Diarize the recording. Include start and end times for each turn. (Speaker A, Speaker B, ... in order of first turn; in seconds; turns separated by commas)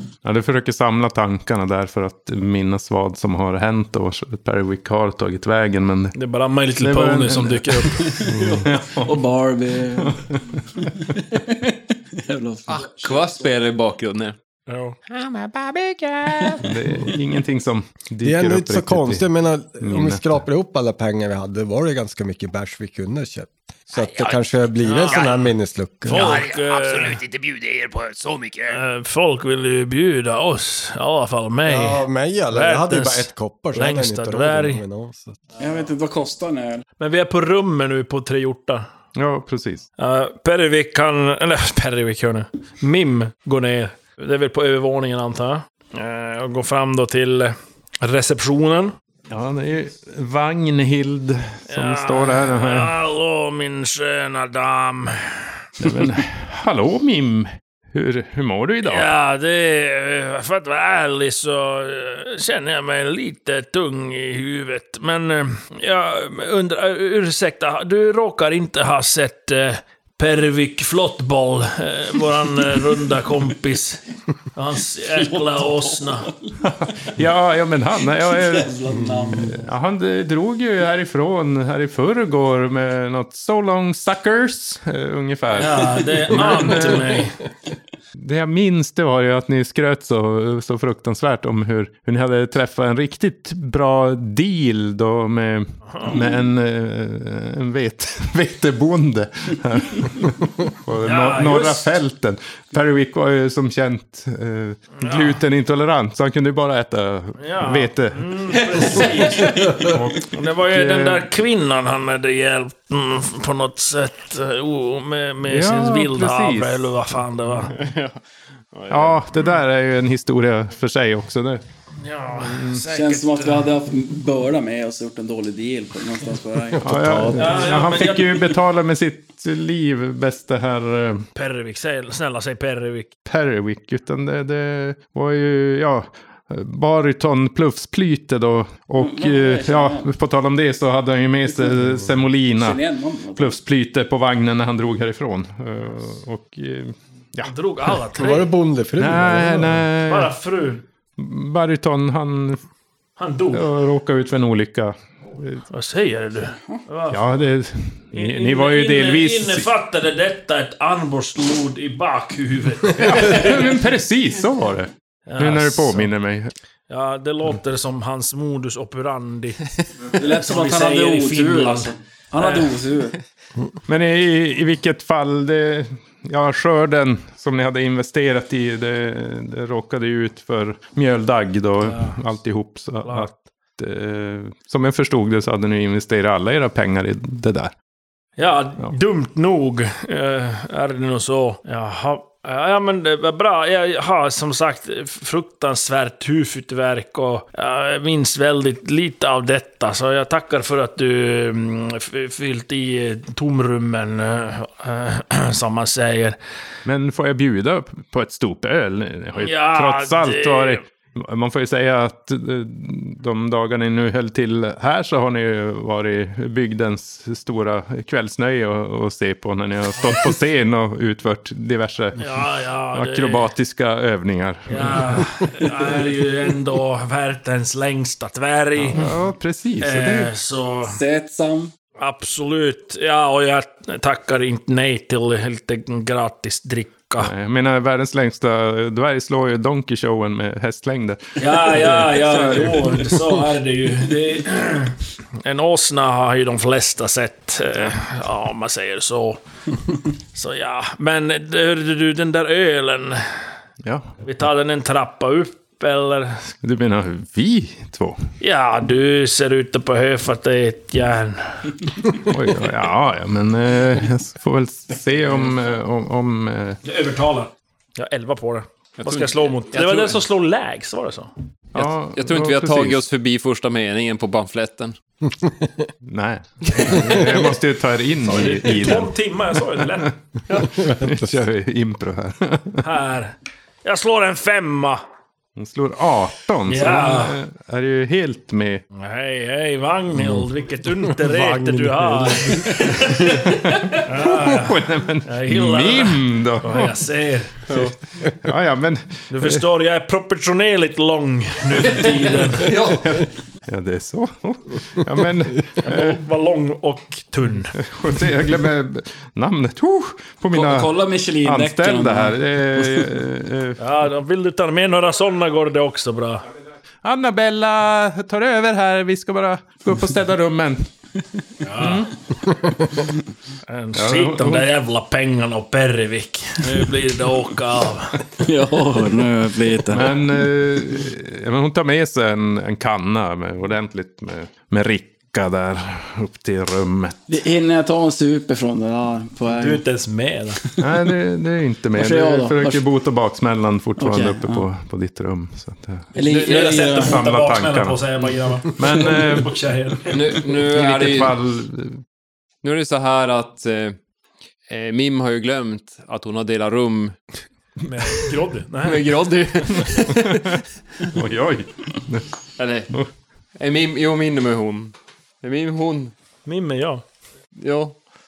Speaker A: 0.2-6.1, Speaker B: 6.1-8.1, Speaker A: 6.8-9.2, Speaker C: 8.0-13.4, Speaker A: 10.0-10.9, Speaker D: 12.8-14.3, Speaker B: 14.7-15.0, Speaker E: 15.1-16.6, Speaker A: 16.6-19.3, Speaker F: 18.2-26.3, Speaker A: 19.8-20.4, Speaker E: 23.9-25.4, Speaker B: 24.9-25.4, Speaker B: 26.0-27.2, Speaker E: 26.1-28.8, Speaker B: 28.7-34.8, Speaker F: 31.6-35.5, Speaker C: 35.6-36.8, Speaker B: 37.0-38.9, Speaker A: 39.1-39.9, Speaker B: 40.0-48.9, Speaker A: 49.3-52.9, Speaker B: 51.7-55.5, Speaker A: 55.8-59.1, Speaker B: 58.8-74.0, Speaker B: 74.5-76.3, Speaker C: 75.2-76.3, Speaker A: 76.6-78.8, Speaker C: 78.3-79.7, Speaker F: 79.0-79.4, Speaker A: 79.4-87.3, Speaker B: 85.5-87.3, Speaker A: 88.1-108.3, Speaker B: 95.9-96.2, Speaker B: 101.0-101.9, Speaker B: 105.0-105.4, Speaker B: 107.4-117.7, Speaker D: 108.5-109.4, Speaker A: 109.8-111.3, Speaker A: 115.5-116.9, Speaker D: 117.7-118.2, Speaker D: 118.7-119.2, Speaker A: 118.9-121.6, Speaker B: 122.0-123.7, Speaker A: 122.3-122.8, Speaker C: 122.9-126.8, Speaker F: 126.7-127.8, Speaker A: 126.8-131.3, Speaker B: 127.3-128.6, Speaker B: 131.3-133.1, Speaker A: 133.2-142.8, Speaker C: 139.0-140.1, Speaker F: 141.8-142.1, Speaker C: 142.5-143.6, Speaker A: 143.3-147.9, Speaker B: 147.4-148.5, Speaker F: 148.2-149.9, Speaker A: 149.0-150.3, Speaker B: 150.1-150.8, Speaker A: 151.2-152.6, Speaker B: 153.2-153.7, Speaker A: 153.5-155.6, Speaker B: 155.7-157.2, Speaker A: 157.1-159.7, Speaker B: 158.1-163.7, Speaker A: 163.0-166.5, Speaker B: 165.3-166.1, Speaker B: 166.9-172.7, Speaker C: 170.2-173.2, Speaker A: 173.9-187.7, Speaker B: 181.9-182.1, Speaker B: 188.4-206.4, Speaker A: 206.8-225.3, Speaker B: 209.4-210.8, Speaker B: 222.2-223.5, Speaker B: 224.7-229.0, Speaker A: 228.8-230.3, Speaker B: 229.8-231.0, Speaker C: 230.8-231.7, Speaker B: 232.0-237.3, Speaker A: 237.2-243.2, Speaker B: 241.4-249.4, Speaker B: 250.3-253.3, Speaker A: 253.8-254.1, Speaker B: 254.2-256.5, Speaker A: 256.6-258.2, Speaker B: 258.4-261.8, Speaker A: 262.3-266.8, Speaker B: 266.8-271.3, Speaker D: 269.0-270.2, Speaker A: 271.7-273.0, Speaker D: 271.7-274.9, Speaker A: 276.0-279.1, Speaker B: 276.7-277.1, Speaker B: 278.2-280.1, Speaker A: 279.7-282.8, Speaker F: 280.8-281.3, Speaker B: 282.8-285.0, Speaker A: 285.6-288.8, Speaker B: 286.7-287.4, Speaker B: 288.9-297.6, Speaker F: 291.2-293.0, Speaker A: 293.2-297.0, Speaker A: 297.7-299.6, Speaker B: 299.3-302.7, Speaker D: 302.0-303.1, Speaker A: 302.9-306.2, Speaker B: 305.8-307.7, Speaker A: 307.7-313.8, Speaker C: 310.5-313.1, Speaker B: 313.8-316.4, Speaker A: 317.0-320.9, Speaker B: 321.6-322.1, Speaker A: 321.7-322.1, Speaker B: 323.7-328.2, Speaker A: 323.9-324.7, Speaker C: 328.4-330.1, Speaker A: 329.9-337.2, Speaker C: 337.3-339.8, Speaker B: 339.5-340.6, Speaker A: 340.8-346.1, Speaker C: 341.9-342.8, Speaker C: 344.0-344.6, Speaker C: 346.1-347.2, Speaker B: 346.2-350.4, Speaker A: 346.9-348.1, Speaker A: 348.7-349.5, Speaker D: 350.1-351.3, Speaker A: 350.5-352.0, Speaker D: 352.6-354.0, Speaker D: 354.7-357.1, Speaker B: 357.8-359.2, Speaker D: 358.8-360.4, Speaker A: 361.1-362.3, Speaker D: 362.6-362.9, Speaker D: 363.6-366.1, Speaker B: 366.4-367.0, Speaker D: 367.6-368.0